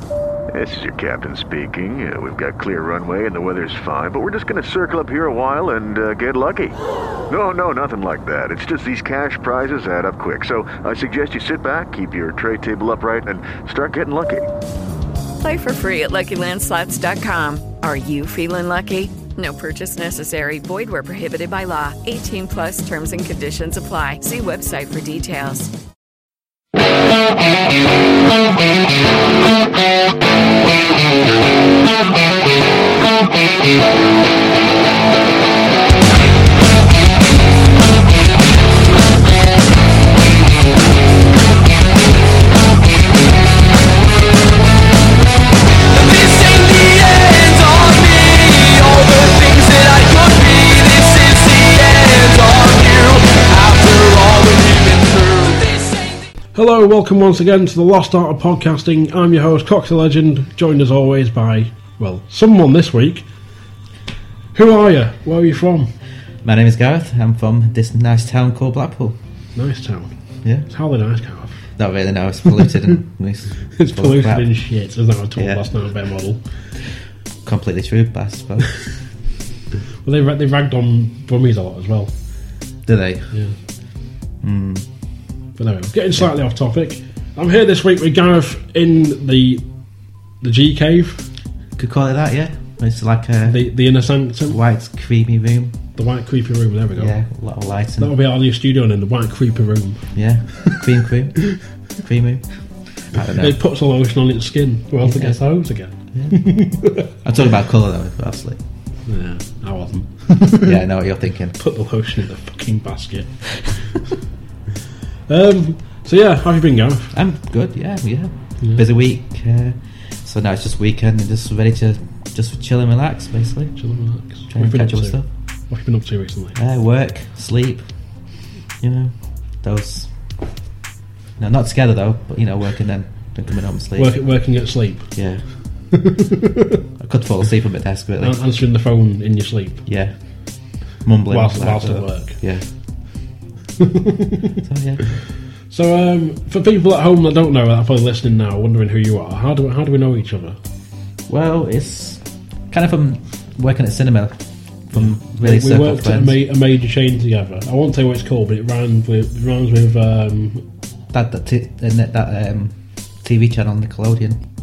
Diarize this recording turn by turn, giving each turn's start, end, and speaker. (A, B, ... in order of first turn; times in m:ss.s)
0:00.5-0:06.8 A
0:07.3-0:14.5 A
0:15.4-0:25.7 B
0:45.9-0:56.0 C
0:56.5-1:03.3 D
1:04.5-1:05.9 D
1:06.4-1:09.2 E
1:09.6-1:10.1 D
1:10.7-1:11.7 D
1:11.8-1:14.5 E
1:13.7-1:16.4 D
1:15.4-1:15.8 E
1:17.4-1:18.8 E
1:20.0-1:22.1 D
1:22.9-1:23.3 E
1:24.4-1:24.9 E
1:25.6-1:29.7 D
1:30.4-1:31.3 D
1:31.8-1:33.7 E
1:33.4-1:34.6 D
1:34.5-1:35.8 E
1:36.0-1:37.2 D
1:37.0-1:38.2 E
1:38.0-1:40.2 D
1:40.1-1:43.6 E
1:43.2-1:47.1 D
1:45.0-1:45.5 E
1:46.1-1:48.6 E
1:49.1-1:50.6 D
1:50.5-1:51.6 E
1:51.6-1:54.0 D
1:55.3-1:57.2 D
1:57.1-2:03.8 E
2:03.8-2:06.6 D
2:04.5-2:05.3 E
2:06.6-2:08.2 E
2:08.8-2:10.1 E
2:11.4-2:14.3 E
2:14.0-2:15.2 D
2:15.1-2:15.9 E
2:15.9-2:16.4 D
2:17.0-2:18.4 E
2:18.2-2:19.9 D
2:19.9-2:22.7 E
2:21.3-2:22.4 D
2:23.8-2:24.5 D
2:24.6-2:25.2 E
2:25.7-2:30.6 D
2:31.3-2:36.4 E
2:34.9-2:40.7 D
2:41.1-2:44.4 E